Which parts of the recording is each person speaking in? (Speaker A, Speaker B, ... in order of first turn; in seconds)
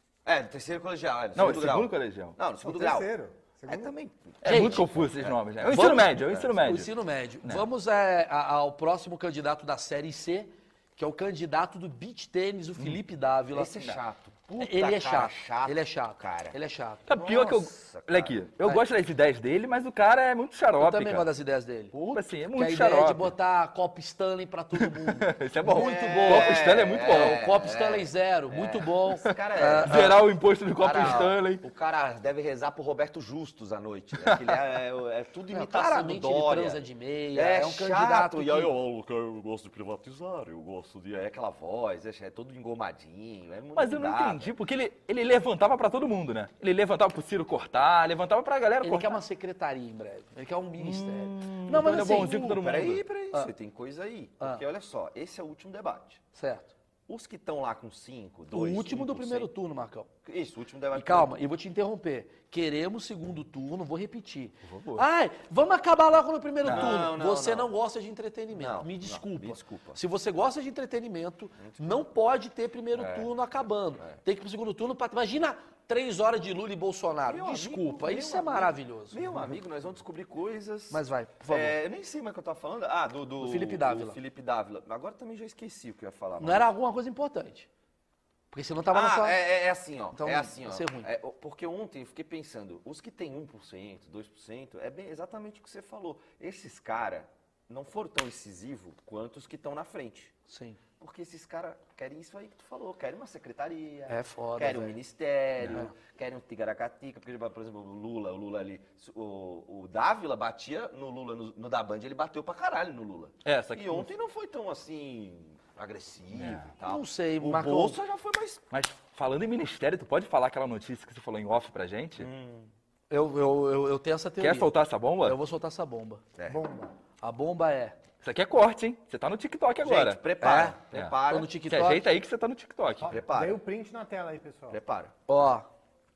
Speaker A: 0.2-3.1, 3.6-6.5, 13.5-16.6, 17.1-18.4, 25.6-30.1, 30.8-36.8, 37.3-44.5, 52.0-56.2, 57.1-59.5, 60.2-61.3, 66.6-67.7, 68.5-70.0, 71.6-72.0, 72.9-73.3, 77.2-86.6, 88.9-100.3, 101.0-118.6, 122.2-122.7, 129.8-131.5, 133.0-133.6, 134.7-135.1
Speaker B: 1.3-2.4, 4.4-6.9, 17.1-21.3, 21.9-23.3, 24.8-27.4, 29.8-31.6, 34.2-34.5, 43.7-49.2, 50.8-53.0, 64.6-65.0, 66.6-67.1, 113.4-114.1, 116.3-116.7, 118.7-122.3, 124.4-125.4, 128.2-130.2, 131.7-133.2
Speaker C: 2.6-3.9, 126.5-126.9, 133.1-134.8
Speaker D: 4.4-4.8, 5.7-6.0, 6.6-14.0, 14.6-17.1, 20.8-30.2, 35.5-38.7, 48.8-52.6, 56.3-56.7, 58.5-60.1, 60.9-79.2, 80.9-81.8, 83.4-84.2, 86.4-87.7, 88.5-89.4, 90.1-91.1, 100.5-100.8, 104.1-105.0, 116.8-118.0, 123.1-124.7, 125.2-126.2, 127.2-128.0, 130.4-130.8, 131.3-132.1, 135.3-135.7